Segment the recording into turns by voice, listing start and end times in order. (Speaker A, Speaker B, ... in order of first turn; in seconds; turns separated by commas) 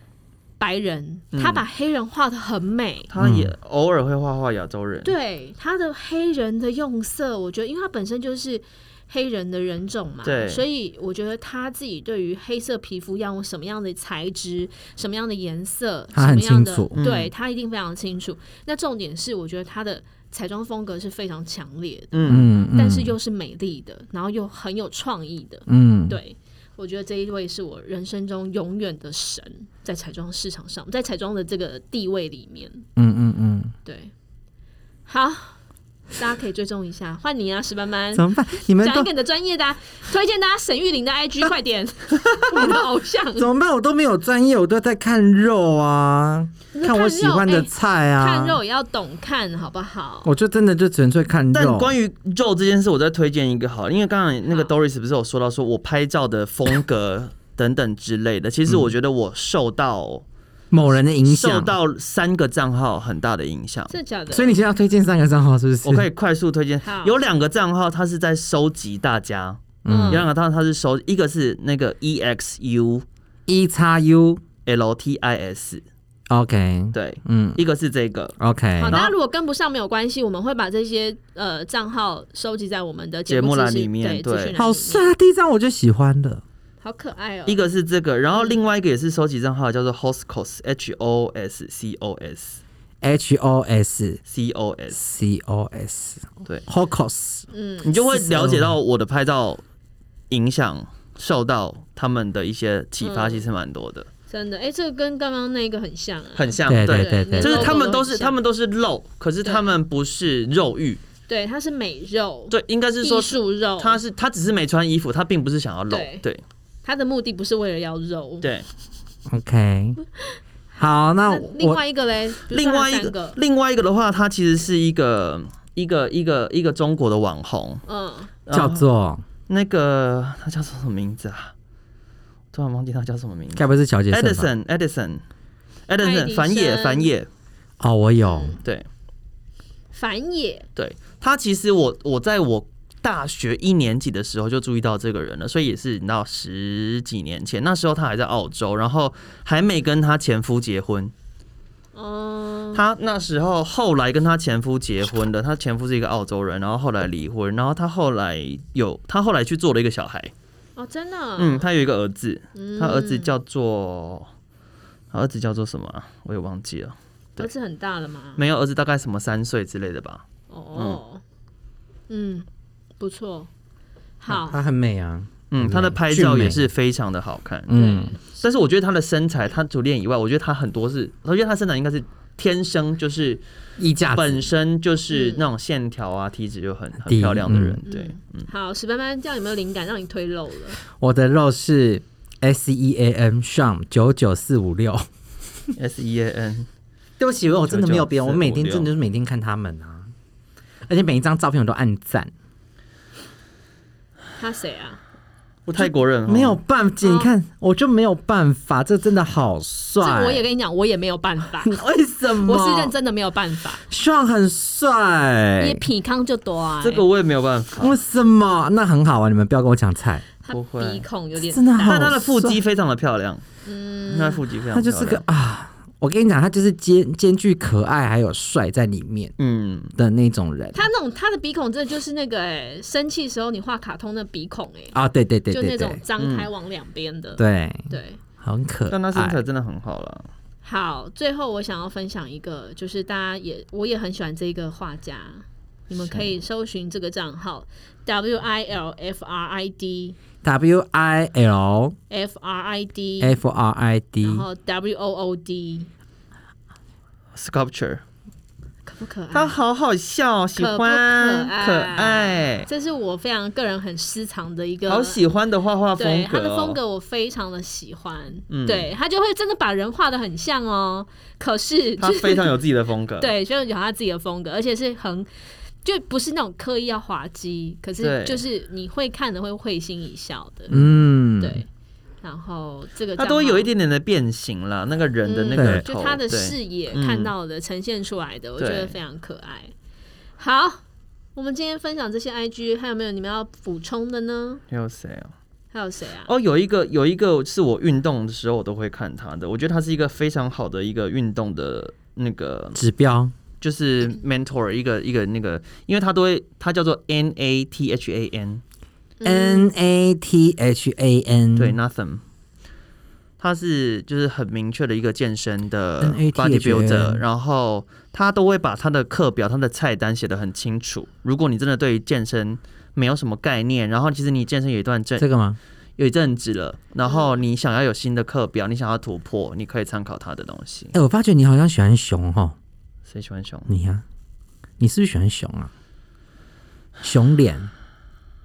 Speaker A: 0.6-3.1, Speaker B: 1.3-1.6, Speaker B: 3.1-5.1, Speaker C: 3.2-3.5, Speaker A: 5.0-32.8, Speaker B: 10.2-10.6, Speaker C: 16.1-16.9, Speaker B: 16.9-17.3, Speaker B: 22.1-22.5, Speaker C: 22.3-23.1, Speaker C: 25.7-26.2, Speaker C: 33.0-33.7, Speaker A: 33.8-34.1, Speaker A: 35.1-35.6, Speaker A: 36.1-43.5, Speaker C: 38.1-39.1, Speaker C: 42.4-42.8, Speaker C: 43.4-48.6, Speaker A: 46.7-50.3, Speaker C: 50.2-51.9, Speaker B: 51.5-60.2, Speaker C: 60.7-61.7, Speaker B: 61.2-63.9, Speaker A: 63.9-64.5, Speaker C: 64.3-66.1, Speaker B: 65.8-73.0, Speaker A: 66.8-67.2, Speaker C: 69.8-70.3, Speaker A: 69.9-70.3, Speaker C: 73.5-74.4, Speaker B: 74.7-75.8, Speaker C: 76.3-77.6, Speaker B: 76.9-78.3, Speaker C: 78.4-79.0, Speaker A: 78.8-85.1, Speaker B: 83.3-84.5, Speaker C: 84.5-86.4, Speaker A: 86.8-87.6, Speaker B: 87.5-92.6, Speaker A: 88.3-88.6, Speaker C: 93.0-94.2, Speaker B: 94.3-95.0, Speaker C: 94.9-97.5, Speaker A: 97.5-98.1, Speaker B: 97.8-99.6, Speaker C: 98.2-98.8, Speaker B: 100.3-104.1, Speaker A: 103.0-103.4, Speaker A: 104.3-108.3, Speaker B: 106.3-111.0, Speaker C: 106.7-107.8, Speaker A: 109.4-109.8, Speaker A: 111.3-114.0, Speaker B: 112.5-116.4, Speaker A: 115.9-116.2, Speaker A: 116.8-118.5, Speaker C: 119.3-120.0, Speaker C: 120.8-121.8, Speaker A: 121.2-123.4, Speaker B: 122.5-127.8, Speaker A: 127.9-128.3, Speaker B: 128.4-128.8, Speaker C: 128.5-129.2, Speaker B: 129.5-131.5, Speaker B: 132.5-135.2, Speaker C: 133.5-134.5, Speaker B: 135.9-137.3, Speaker A: 136.0-137.1, Speaker C: 137.8-138.6, Speaker A: 138.3-138.6, Speaker A: 139.9-140.7, Speaker B: 140.8-151.1, Speaker A: 151.9-152.8, Speaker B: 152.7-160.3, Speaker A: 160.8-161.6, Speaker B: 161.4-164.3, Speaker A: 162.5-163.3, Speaker B: 165.1-167.5, Speaker A: 167.4-168.4, Speaker B: 168.4-170.2, Speaker A: 170.5-171.2, Speaker B: 170.7-171.0, Speaker A: 172.1-172.4, Speaker A: 173.0-173.5, Speaker A: 174.2-174.6, Speaker C: 174.3-176.6, Speaker B: 175.5-183.4, Speaker C: 177.7-178.1, Speaker A: 177.7-178.2, Speaker C: 183.8-184.4, Speaker B: 184.1-188.5, Speaker A: 185.1-185.4, Speaker C: 187.0-187.8, Speaker A: 187.8-190.8, Speaker C: 191.0-195.1, Speaker B: 195.8-196.7, Speaker C: 197.2-200.1, Speaker B: 197.7-198.9, Speaker C: 200.8-202.3, Speaker A: 204.4-205.0, Speaker B: 205.7-206.6, Speaker C: 205.8-210.4, Speaker A: 207.0-207.3, Speaker A: 210.0-211.8, Speaker C: 211.6-212.9, Speaker A: 212.3-213.8, Speaker C: 213.9-215.8, Speaker A: 215.6-217.0, Speaker B: 216.8-218.0, Speaker C: 217.8-220.2, Speaker A: 220.4-222.0, Speaker B: 220.5-221.0, Speaker C: 221.4-222.6, Speaker B: 221.8-223.4, Speaker A: 223.6-224.4, Speaker B: 224.1-225.2, Speaker C: 224.7-229.3, Speaker B: 229.4-229.9, Speaker C: 229.9-230.9, Speaker A: 230.7-234.9, Speaker C: 234.9-236.0, Speaker A: 235.5-238.2, Speaker B: 236.2-236.5, Speaker C: 237.4-237.9, Speaker C: 238.4-239.4, Speaker B: 238.9-240.3, Speaker A: 240.6-250.2, Speaker C: 250.4-251.9, Speaker A: 252.1-253.4, Speaker C: 253.2-254.4, Speaker A: 254.2-255.9, Speaker B: 257.3-258.0, Speaker A: 258.8-259.6, Speaker B: 259.3-262.7, Speaker A: 260.6-265.2, Speaker B: 264.9-266.8, Speaker A: 266.0-272.5, Speaker B: 268.5-268.9, Speaker B: 272.0-273.3, Speaker A: 273.2-275.3, Speaker A: 275.8-280.8, Speaker B: 278.0-278.4, Speaker C: 280.7-281.6, Speaker A: 281.4-281.7, Speaker A: 282.2-283.7, Speaker B: 283.2-287.3, Speaker A: 285.2-289.7, Speaker C: 285.5-285.8, Speaker B: 288.6-289.0, Speaker A: 290.4-290.8, Speaker A: 291.4-294.6, Speaker B: 294.7-295.3, Speaker A: 295.7-296.3, Speaker B: 296.3-302.8, Speaker C: 302.7-303.3, Speaker B: 303.6-308.6, Speaker A: 309.2-309.7, Speaker C: 309.2-311.8, Speaker B: 311.6-312.2, Speaker B: 313.4-325.2, Speaker C: 316.0-317.2, Speaker C: 325.2-325.6, Speaker B: 326.0-330.9, Speaker A: 327.0-327.4, Speaker C: 330.9-332.6, Speaker B: 333.1-333.7, Speaker C: 333.7-334.0, Speaker C: 334.8-335.7, Speaker C: 337.0-337.7